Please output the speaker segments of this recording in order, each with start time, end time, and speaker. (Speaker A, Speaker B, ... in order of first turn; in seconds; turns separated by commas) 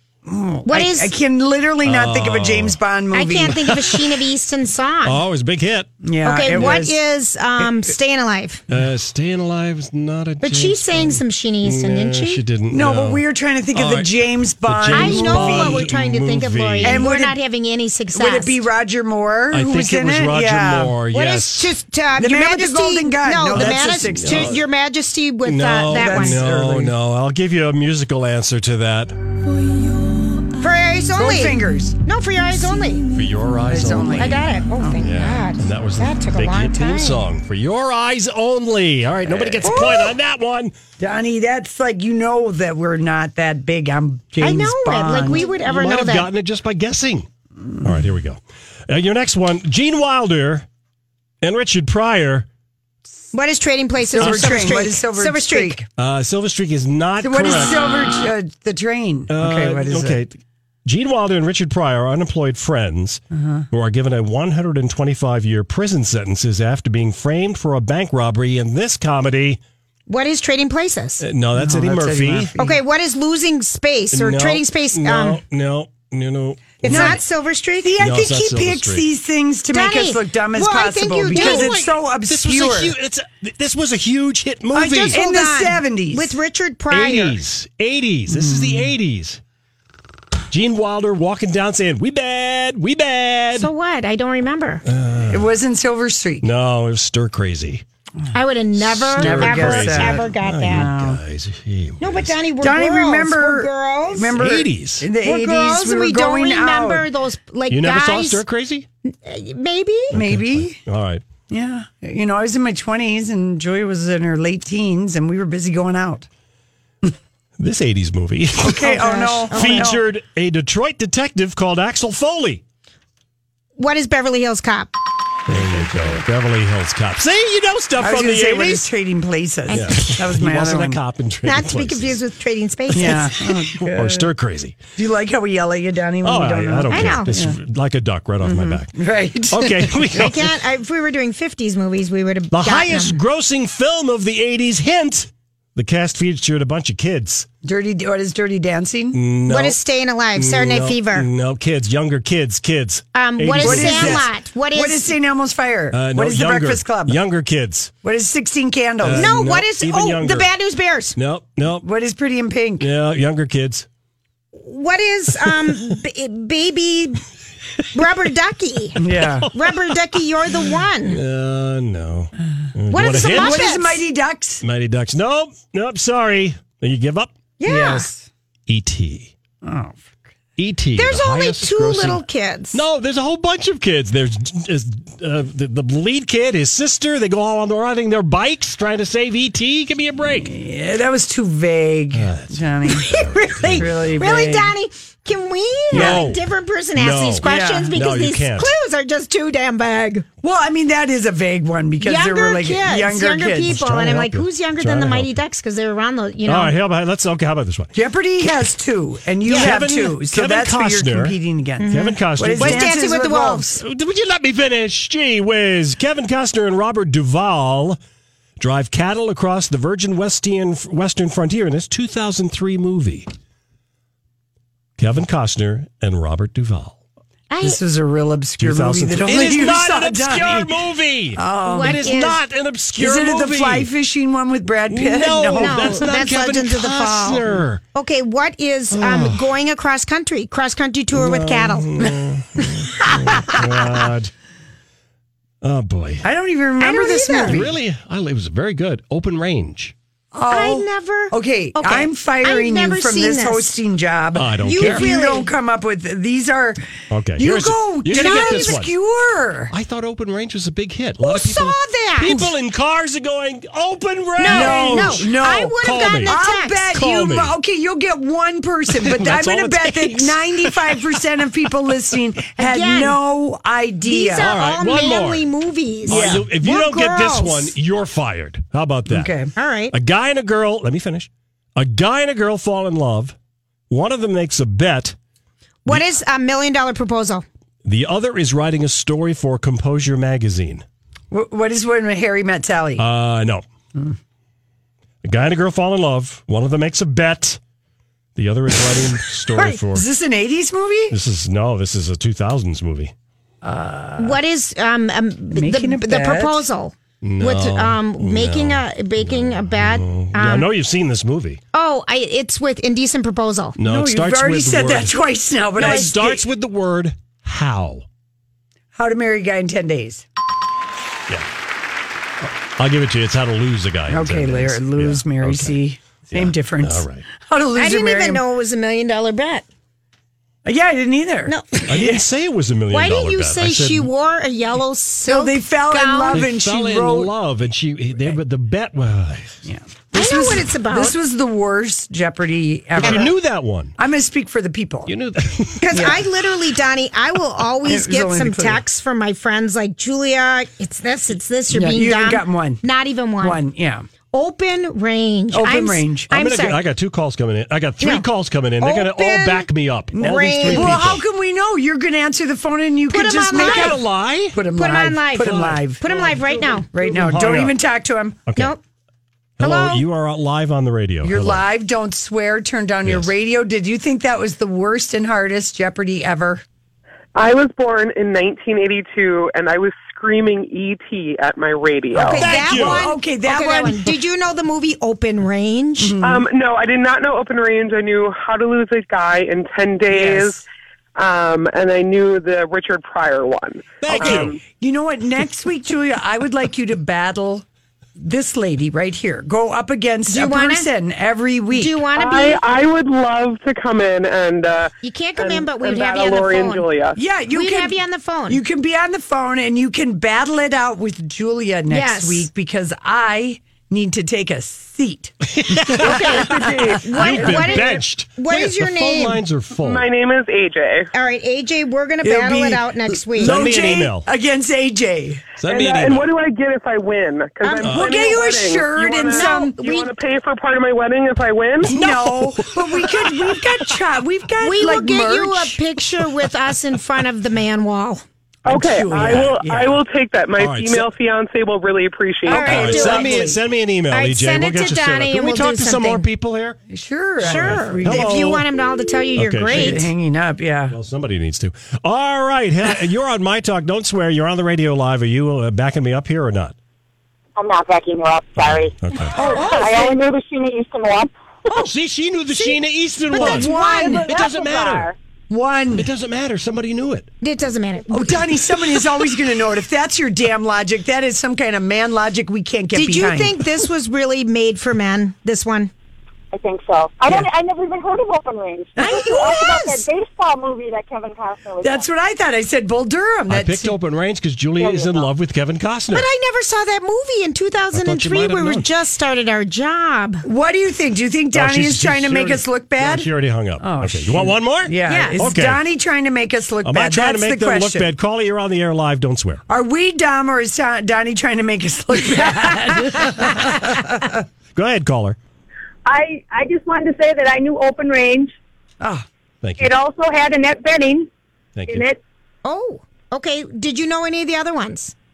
Speaker A: 0.2-3.7, Speaker B: 0.7-1.1, Speaker C: 1.8-2.8, Speaker B: 3.1-5.2, Speaker C: 5.0-5.9, Speaker A: 6.0-7.0, Speaker B: 6.2-8.6, Speaker C: 8.7-17.1, Speaker B: 10.4-12.4, Speaker A: 12.7-15.9, Speaker B: 14.9-18.6, Speaker A: 16.8-17.4, Speaker A: 18.1-20.9, Speaker C: 19.5-21.8, Speaker B: 21.1-26.4, Speaker A: 22.2-24.6, Speaker C: 23.5-24.6, Speaker C: 25.4-29.2, Speaker A: 25.9-26.9, Speaker B: 30.6-33.0, Speaker A: 31.1-32.0, Speaker C: 33.1-34.4, Speaker A: 33.7-35.0, Speaker B: 34.2-37.2, Speaker C: 35.0-40.7, Speaker A: 39.3-40.1, Speaker A: 41.0-45.5, Speaker B: 44.4-46.3, Speaker C: 45.6-47.3, Speaker C: 47.8-50.6, Speaker C: 51.4-52.5, Speaker B: 53.3-55.8, Speaker A: 54.1-55.9, Speaker C: 54.2-54.7, Speaker C: 56.0-57.8, Speaker A: 57.2-60.2, Speaker C: 59.3-69.6, Speaker A: 63.3-63.7, Speaker B: 70.1-71.2, Speaker C: 71.2-72.5, Speaker A: 71.5-72.8, Speaker B: 72.6-75.4, Speaker C: 74.1-77.2, Speaker B: 76.8-78.0, Speaker A: 76.8-77.2, Speaker A: 77.8-83.0, Speaker C: 78.0-79.0, Speaker B: 79.7-81.8, Speaker C: 81.3-85.2, Speaker B: 84.7-87.4, Speaker A: 85.1-86.4, Speaker C: 86.9-89.4, Speaker A: 88.3-88.9, Speaker C: 90.5-93.7, Speaker B: 93.6-94.8, Speaker C: 94.9-95.5, Speaker A: 95.3-96.5, Speaker C: 96.4-97.8, Speaker B: 98.3-100.9, Speaker C: 98.8-102.3, Speaker A: 99.2-101.2, Speaker B: 102.0-104.4, Speaker A: 102.6-107.1, Speaker C: 104.3-105.1, Speaker B: 105.2-108.4, Speaker C: 107.7-108.9, Speaker B: 109.0-110.2, Speaker A: 110.1-110.8, Speaker C: 110.1-111.3, Speaker A: 111.5-116.3, Speaker C: 117.6-122.6, Speaker A: 118.6-120.0, Speaker B: 118.8-119.9, Speaker B: 123.8-124.9, Speaker C: 125.5-128.9, Speaker A: 125.5-126.2, Speaker A: 128.0-131.0, Speaker B: 129.7-130.2, Speaker C: 129.7-132.2, Speaker B: 131.5-133.3, Speaker A: 132.9-134.3, Speaker C: 133.0-134.8, Speaker A: 135.0-137.6, Speaker C: 136.2-138.9, Speaker B: 136.9-137.3, Speaker A: 138.4-140.2, Speaker C: 139.5-140.5, Speaker B: 140.2-143.2, Speaker C: 142.5-147.5, Speaker A: 147.6-149.2, Speaker C: 149.1-149.8, Speaker B: 149.5-151.3, Speaker C: 150.3-154.3, Speaker B: 153.2-155.1, Speaker A: 153.6-157.2, Speaker C: 155.9-157.9, Speaker A: 158.0-159.3, Speaker C: 159.0-160.5, Speaker B: 159.2-161.2, Speaker C: 161.2-161.9, Speaker A: 161.8-162.9, Speaker C: 162.8-163.9, Speaker B: 164.6-167.2, Speaker B: 167.9-169.0, Speaker A: 169.0-169.5, Speaker C: 169.1-170.0, Speaker B: 169.5-171.2, Speaker C: 171.1-173.7, Speaker B: 172.9-174.0, Speaker A: 173.3-174.6, Speaker C: 174.6-177.3, Speaker B: 177.6-178.1, Speaker A: 177.7-178.3, Speaker C: 178.7-179.3, Speaker A: 179.6-180.2, Speaker C: 180.6-190.5, Speaker B: 181.0-182.8, Speaker A: 190.3-193.1, Speaker C: 192.1-194.1, Speaker B: 192.9-200.3, Speaker A: 193.8-194.7, Speaker C: 195.9-196.4, Speaker A: 195.9-196.3, Speaker C: 197.0-198.7, Speaker A: 197.4-197.9, Speaker A: 200.4-203.8, Speaker B: 202.0-206.7, Speaker C: 203.7-205.3, Speaker C: 206.5-207.9, Speaker A: 207.9-213.8, Speaker B: 209.4-209.7, Speaker C: 209.5-212.9, Speaker B: 211.8-213.8, Speaker C: 213.8-218.0, Speaker C: 218.6-223.3, Speaker C: 225.0-227.0, Speaker B: 227.5-227.8, Speaker A: 227.6-230.7, Speaker C: 228.6-233.9, Speaker A: 231.4-232.0, Speaker B: 231.7-232.4, Speaker A: 233.0-236.1, Speaker C: 234.9-237.8, Speaker B: 235.6-241.9, Speaker C: 238.9-239.6, Speaker C: 241.1-244.3, Speaker A: 243.2-244.1, Speaker C: 245.6-246.3, Speaker A: 246.2-247.8, Speaker B: 246.8-247.6, Speaker C: 247.5-249.9, Speaker A: 250.3-259.7, Speaker B: 250.5-253.8, Speaker C: 254.3-255.1, Speaker B: 254.6-255.5, Speaker C: 257.1-258.9, Speaker B: 258.1-258.8, Speaker C: 259.7-265.3, Speaker B: 261.2-262.5, Speaker B: 264.4-266.9, Speaker A: 264.4-274.5, Speaker C: 265.8-266.4, Speaker C: 266.9-267.5, Speaker C: 268.9-271.0, Speaker B: 272.6-273.2, Speaker B: 274.0-277.7, Speaker C: 274.4-275.5, Speaker C: 276.1-279.3, Speaker A: 276.1-276.5, Speaker A: 279.1-279.5, Speaker B: 279.6-279.9, Speaker C: 279.9-283.4, Speaker C: 283.9-285.2, Speaker B: 285.9-287.4, Speaker C: 287.8-290.9, Speaker A: 291.3-293.1, Speaker C: 293.0-293.6, Speaker C: 295.2-297.6, Speaker C: 298.4-300.1, Speaker A: 299.9-301.2, Speaker C: 301.1-303.1, Speaker A: 303.6-304.4, Speaker B: 304.2-310.7, Speaker A: 305.5-306.6, Speaker C: 307.2-311.6, Speaker B: 311.7-313.8, Speaker C: 313.8-315.1, Speaker A: 313.8-316.4, Speaker C: 315.8-318.1, Speaker B: 315.8-316.1, Speaker A: 318.9-320.3, Speaker C: 322.4-325.8, Speaker A: 324.1-328.4, Speaker C: 326.3-327.3, Speaker B: 327.8-329.6, Speaker A: 330.6-332.2, Speaker B: 331.5-331.9, Speaker C: 331.9-334.1, Speaker B: 332.9-336.4, Speaker A: 335.3-337.3, Speaker C: 336.3-339.6, Speaker A: 339.7-343.3, Speaker B: 340.1-341.2, Speaker C: 343.0-343.9, Speaker A: 344.0-345.1, Speaker C: 345.1-346.2, Speaker B: 345.8-353.6, Speaker A: 345.9-346.2, Speaker A: 347.8-348.8, Speaker A: 351.7-352.8, Speaker A: 353.4-354.1, Speaker B: 354.3-356.8, Speaker A: 355.5-356.3, Speaker C: 356.3-361.2, Speaker B: 358.0-358.3, Speaker B: 358.8-359.7, Speaker A: 360.1-366.2, Speaker B: 360.2-361.0, Speaker B: 363.1-364.0, Speaker C: 363.5-364.6, Speaker B: 364.8-366.9, Speaker C: 365.4-366.4, Speaker A: 366.9-368.4, Speaker C: 366.9-367.8, Speaker C: 368.5-368.8, Speaker C: 369.6-371.6, Speaker B: 369.6-370.0, Speaker A: 371.2-376.6, Speaker C: 373.1-373.3, Speaker D: 377.4-382.4, Speaker B: 382.1-386.2, Speaker A: 382.3-384.1, Speaker C: 382.4-383.1, Speaker A: 386.0-386.5, Speaker D: 386.2-390.6, Speaker A: 390.1-390.6, Speaker D: 391.2-394.6, Speaker C: 394.0-394.6, Speaker A: 394.1-397.7, Speaker A: 398.2-402.0, Speaker B: 400.3-400.9, Speaker B: 401.7-402.6, Speaker D: 402.2-407.2, Speaker B: 405.0-406.9, Speaker A: 407.2-417.9, Speaker B: 407.5-408.6, Speaker B: 411.9-412.5, Speaker C: 415.5-416.1, Speaker B: 416.0-419.4, Speaker D: 416.5-417.6, Speaker C: 417.2-420.1, Speaker D: 419.8-421.1, Speaker B: 421.1-423.6, Speaker A: 422.2-425.5, Speaker C: 423.4-424.3, Speaker C: 425.6-426.3, Speaker D: 425.7-431.9, Speaker A: 427.7-430.1, Speaker C: 427.8-428.1, Speaker B: 429.4-429.7, Speaker A: 431.8-435.8, Speaker C: 431.9-433.9, Speaker B: 434.6-438.2, Speaker D: 438.7-443.1, Speaker A: 438.7-440.0, Speaker C: 440.6-441.1, Speaker A: 442.5-443.6, Speaker B: 442.5-443.6, Speaker C: 442.5-446.8, Speaker B: 444.1-446.2, Speaker A: 446.9-448.6, Speaker B: 447.4-450.1, Speaker C: 447.4-448.6, Speaker C: 449.4-450.1, Speaker A: 449.7-451.0, Speaker C: 450.9-456.8, Speaker E: 457.6-461.3, Speaker C: 458.6-459.4, Speaker A: 459.3-460.2, Speaker C: 461.8-465.1, Speaker B: 463.3-464.3, Speaker A: 463.4-464.3, Speaker E: 463.6-465.2, Speaker A: 465.5-466.1, Speaker C: 465.9-467.3, Speaker B: 467.4-468.4, Speaker A: 468.1-473.6, Speaker B: 472.9-475.9, Speaker E: 476.5-482.1, Speaker B: 479.0-480.1, Speaker A: 481.8-483.9, Speaker C: 483.5-486.3, Speaker E: 484.8-485.3, Speaker B: 486.1-490.4, Speaker C: 487.9-488.9, Speaker A: 490.4-493.3, Speaker C: 491.5-495.8, Speaker A: 493.8-498.1, Speaker B: 495.1-495.4, Speaker C: 496.8-499.6, Speaker A: 499.7-504.4, Speaker C: 504.8-505.4, Speaker F: 506.1-508.6, Speaker A: 509.0-509.3, Speaker C: 509.6-509.9, Speaker F: 509.8-511.3, Speaker C: 511.8-512.0, Speaker F: 511.9-512.2, Speaker B: 512.6-515.1